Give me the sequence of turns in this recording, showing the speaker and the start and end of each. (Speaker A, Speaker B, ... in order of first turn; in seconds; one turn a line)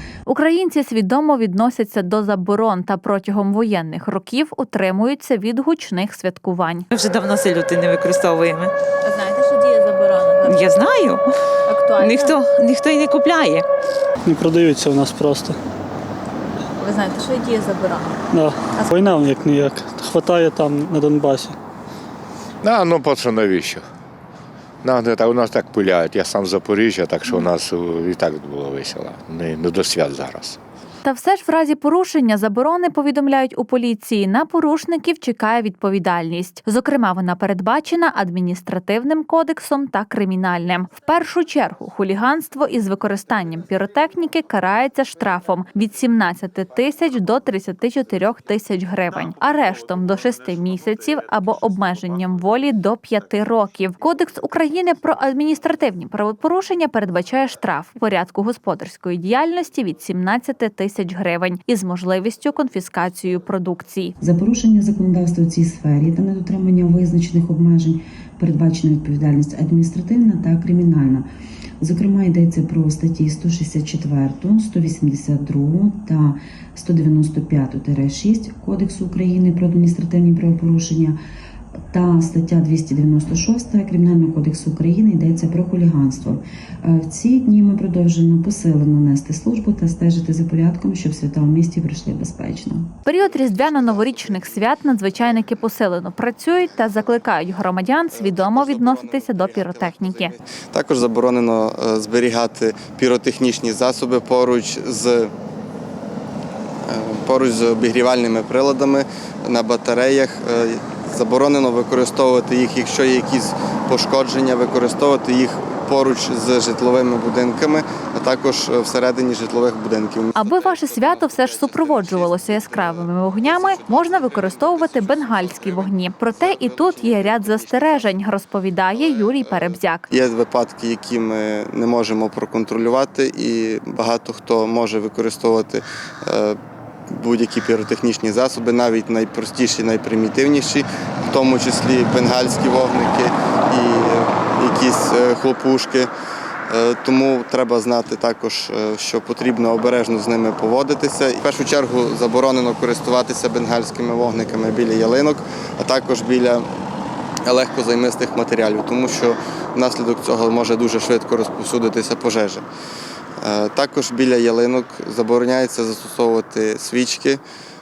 Speaker A: 0.3-6.9
Speaker B: 6.9-8.7
Speaker A: 9.0-10.7
Speaker B: 10.4-11.3
Speaker A: 11.7-12.4
Speaker B: 12.0-13.7
Speaker C: 14.2-15.6
Speaker A: 16.8-18.2
Speaker C: 18.3-21.6
Speaker A: 18.7-19.1
Speaker D: 22.6-23.8
Speaker D: 24.8-30.6
Speaker A: 31.0-64.1
Speaker E: 64.2-71.2
Speaker E: 71.8-81.2
Speaker E: 81.9-92.9
Speaker A: 93.0-100.3
Speaker F: 93.2-95.6
Speaker F: 96.7-97.2
Speaker F: 98.1-105.3
Speaker F: 106.9-128.2
Speaker A: 120.3-130.1
Speaker F: 128.9-136.6
Speaker F: 137.1-146.1
Speaker F: 146.7-156.6
Speaker F: 157.4-162.6
Speaker F: 163.4-167.4